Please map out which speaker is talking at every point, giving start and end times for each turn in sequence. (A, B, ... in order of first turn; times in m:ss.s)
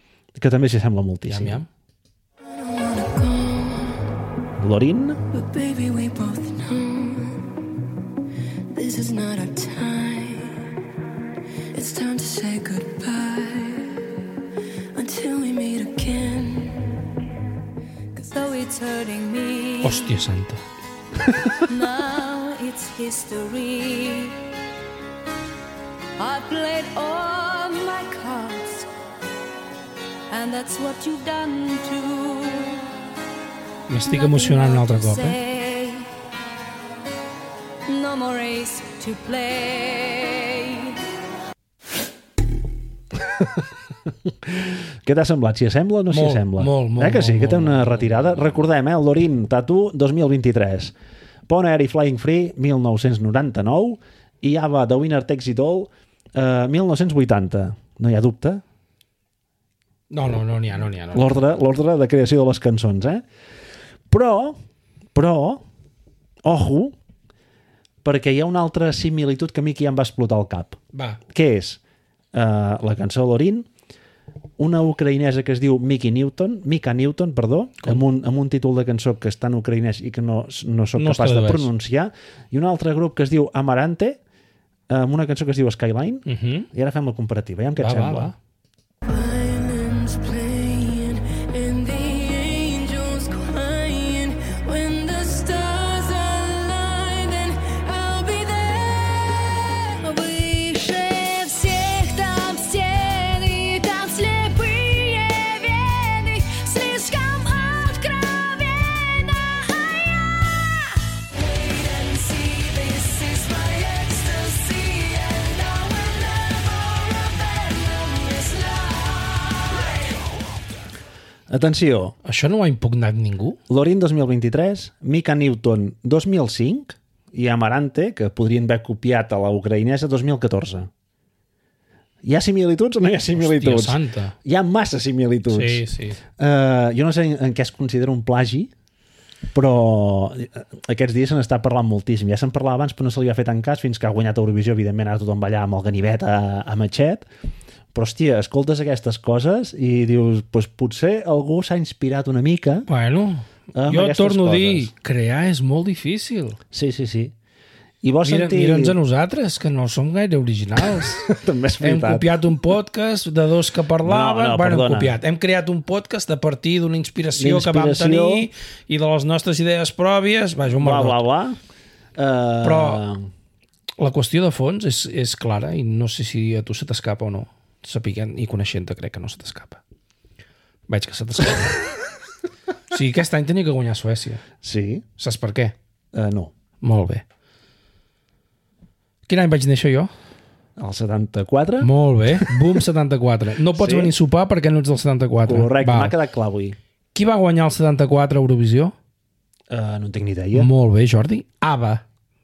0:00.4-0:01.6 A
0:01.3-0:01.7 B
0:02.5-0:04.1 C
0:04.6-0:05.2 A
0:05.3-0:07.6 C
0:08.7-0:10.6 C
0:11.7-0:14.1 C
0:15.0-0:17.1 C
0:18.2-0:20.2 C
0:19.8-0:20.6 B
0:21.6-0:24.4 C
0:26.2-0:28.9 C
0:30.3-0:32.8 C
0:33.9-0:35.4 B
0:34.0-0:36.1 C
0:37.9-0:41.0 C
0:44.2-0:50.9 A
0:46.1-0:48.5 B
0:51.5-0:58.6 A
1:00.1-1:01.4 B
1:01.1-1:03.2 A
1:04.1-1:04.6 A
1:05.1-1:05.6 A
1:06.4-1:07.0 A
1:08.0-1:11.8 A
1:10.9-1:11.2 B
1:12.3-1:13.7 A
1:14.6-1:24.2 A
1:21.0-1:21.7 B
1:24.9-1:28.3 A
1:26.3-1:26.7 B
1:27.8-1:28.4 B
1:29.0-2:00.4 C
2:01.5-2:02.2 A
2:02.2-2:03.6 B
2:03.7-2:10.9 A
2:12.2-2:15.8 A
2:13.4-2:14.4 B
2:15.5-2:16.2 B
2:16.4-2:18.7 A
2:19.5-2:27.3 A
2:27.9-2:32.9 A
2:32.9-2:36.6 B
2:33.8-2:34.9 A
2:36.7-2:37.3 A
2:38.0-2:39.0 A
2:38.2-2:41.3 B
2:40.9-2:42.3 A
2:41.8-2:51.2 B
2:44.0-2:45.2 A
2:47.4-2:48.5 A
2:50.8-2:51.6 A
2:52.2-2:53.3 A
2:52.6-2:53.0 B
2:54.0-2:59.8 B
3:00.9-3:01.8 B
3:02.9-3:04.4 B
3:04.6-3:05.0 A
3:05.2-3:05.8 B
3:06.1-3:06.5 A
3:06.8-3:07.2 B
3:09.3-3:10.1 B
3:10.8-3:12.6 A
3:11.8-3:16.1 B
3:13.8-3:14.1 A
3:15.4-3:16.8 A
3:17.1-3:18.9 B
3:19.7-3:20.7 A
3:20.5-3:22.0 B